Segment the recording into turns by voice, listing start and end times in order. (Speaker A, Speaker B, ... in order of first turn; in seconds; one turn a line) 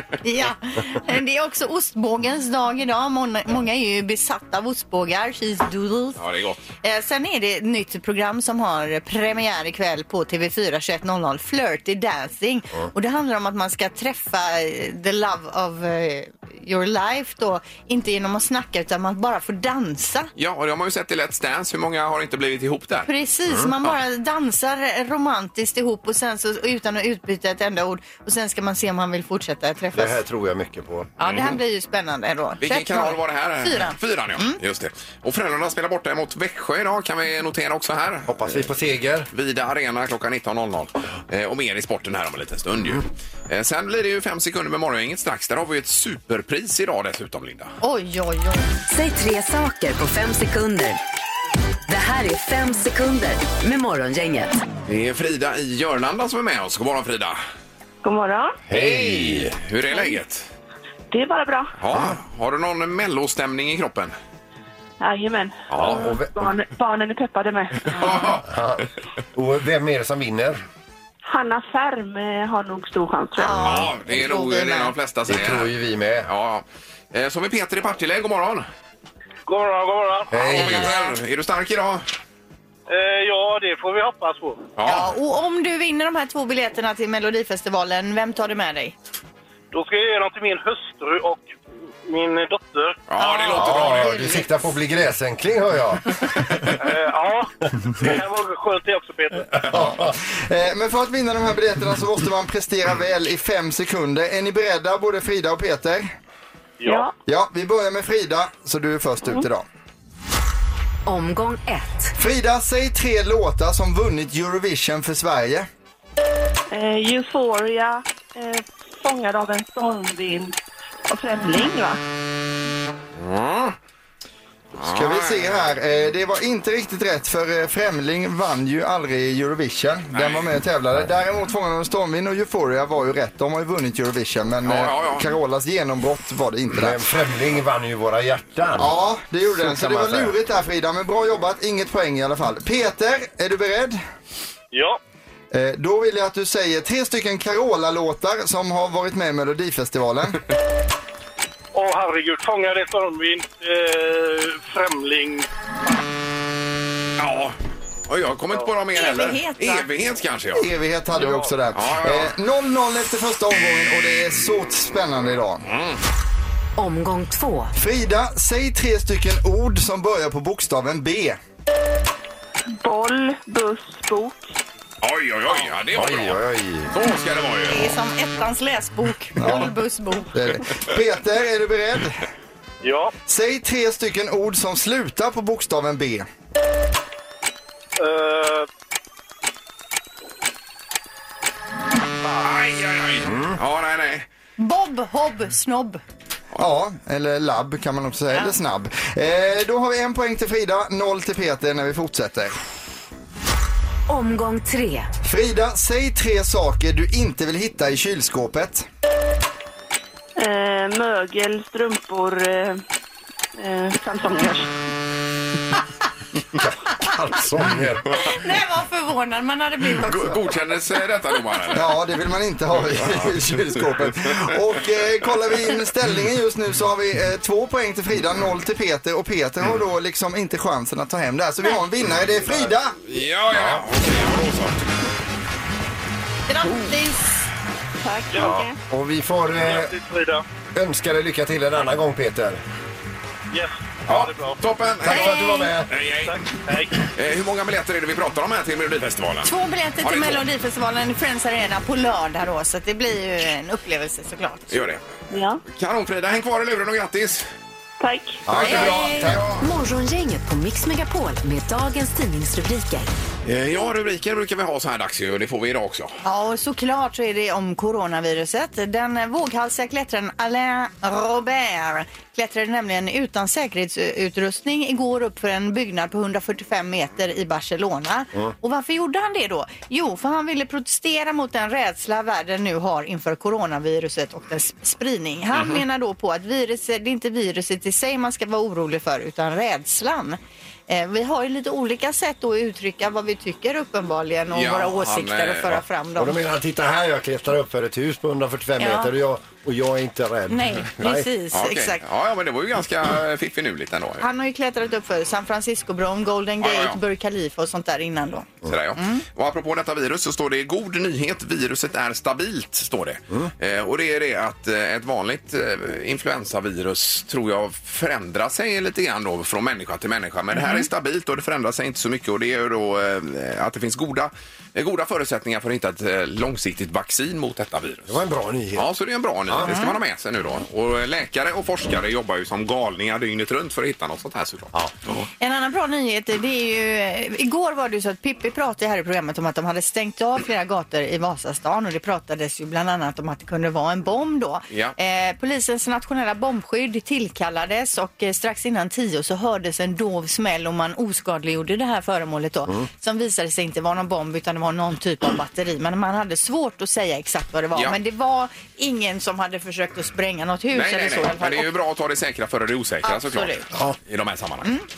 Speaker A: 0.2-6.2
Speaker B: 6.2-6.7
Speaker A: 6.8-20.3
Speaker B: 20.4-23.1
Speaker A: 23.1-30.2
Speaker C: 29.9-31.2
Speaker A: 31.2-34.6
Speaker B: 31.2-31.6
Speaker B: 32.6-38.6
Speaker C: 38.3-39.3
Speaker B: 39.3-47.8
Speaker A: 47.8-48.7
Speaker D: 48.9-51.0
Speaker D: 51.9-54.5
Speaker B: 54.9-57.4
Speaker E: 58.0-58.6
Speaker C: 58.7-59.5
Speaker B: 58.7-60.5
Speaker E: 61.1-61.7
Speaker B: 61.8-64.1
Speaker E: 65.0-68.4
Speaker B: 65.7-66.0
Speaker C: 65.8-66.5
Speaker B: 67.9-68.5
Speaker C: 68.5-70.6
Speaker E: 71.2-73.6
Speaker A: 73.4-74.9
Speaker B: 73.5-75.7
Speaker C: 75.3-76.3
Speaker B: 76.2-78.7
Speaker F: 79.5-80.4
Speaker C: 80.3-80.9
Speaker B: 80.4-82.0
Speaker F: 82.9-84.7
Speaker B: 84.8-85.1
Speaker A: 84.9-89.0
Speaker F: 89.7-91.5
Speaker F: 92.0-93.0
Speaker B: 93.1-94.3
Speaker A: 93.2-94.4
Speaker C: 93.6-96.3
Speaker F: 96.8-99.7
Speaker C: 99.7-100.2
Speaker G: 100.5-106.1
Speaker F: 106.8-107.1
Speaker E: 106.8-107.2
Speaker G: 107.3-109.7
Speaker D: 111.1-112.1
Speaker G: 112.2-115.7
Speaker E: 116.7-120.5
Speaker E: 121.1-122.0
Speaker B: 123.2-123.8
Speaker B: 124.8-125.7
Speaker G: 124.8-137.0
Speaker B: 130.1-130.5
Speaker B: 134.7-135.3
Speaker C: 136.8-138.9
Speaker G: 138.8-144.0
Speaker C: 139.5-140.3
Speaker F: 144.7-145.0
Speaker G: 145.5-150.4
Speaker F: 151.7-155.5
Speaker B: 157.2-157.6
Speaker B: 158.1-160.7
Speaker A: 158.9-159.9
Speaker G: 160.6-165.7
Speaker F: 161.2-161.5
Speaker B: 161.7-162.3
Speaker B: 165.7-166.0
Speaker D: 166.8-167.7
Speaker G: 167.8-171.4
Speaker E: 172.8-174.5
Speaker B: 175.0-176.4
Speaker C: 175.9-176.9
Speaker B: 176.9-177.9
Speaker A: 177.7-180.3
Speaker G: 179.4-179.7
Speaker G: 180.3-182.2
Speaker F: 182.8-183.1
Speaker G: 183.3-186.2
Speaker F: 188.0-188.7
Speaker B: 192.4-194.3
Speaker A: 194.6-196.0
Speaker G: 196.6-202.6
Speaker D: 204.1-205.1
Speaker G: 205.2-208.9
Speaker E: 210.4-212.8
Speaker E: 213.6-214.7
Speaker C: 216.6-218.1
Speaker A: 218.2-220.4
Speaker B: 220.0-221.9
Speaker G: 221.7-233.0
Speaker B: 233.1-234.8
Speaker C: 233.5-233.8
Speaker A: 236.5-237.3
Speaker E: 238.0-238.8
Speaker F: 238.3-238.7
Speaker C: 238.9-239.9
Speaker F: 239.6-240.4
Speaker C: 240.7-242.6
Speaker F: 243.5-244.6
Speaker B: 244.1-246.4
Speaker C: 245.0-245.9
Speaker A: 245.1-245.7
Speaker F: 246.2-247.0
Speaker B: 247.1-249.5
Speaker A: 249.4-254.8
Speaker B: 250.0-250.4
Speaker B: 254.7-255.0
Speaker E: 255.3-255.6
Speaker B: 255.7-257.5
Speaker E: 258.0-258.4
Speaker C: 258.5-259.5
Speaker B: 258.5-259.6
Speaker A: 258.6-259.2
Speaker D: 259.6-263.1
Speaker B: 263.4-266.2
Speaker A: 266.2-296.4
Speaker B: 294.5-295.8
Speaker C: 296.2-301.3
Speaker A: 298.8-299.1
Speaker A: 300.5-302.0
Speaker B: 301.5-304.2
Speaker A: 304.2-309.2
Speaker B: 306.6-307.0
Speaker B: 308.6-328.2
Speaker A: 320.6-320.8
Speaker C: 328.1-328.9
Speaker B: 328.8-335.3
Speaker A: 329.6-329.9
Speaker A: 335.4-361.7
Speaker B: 344.7-344.9
Speaker B: 360.7-364.7
Speaker A: 363.0-363.7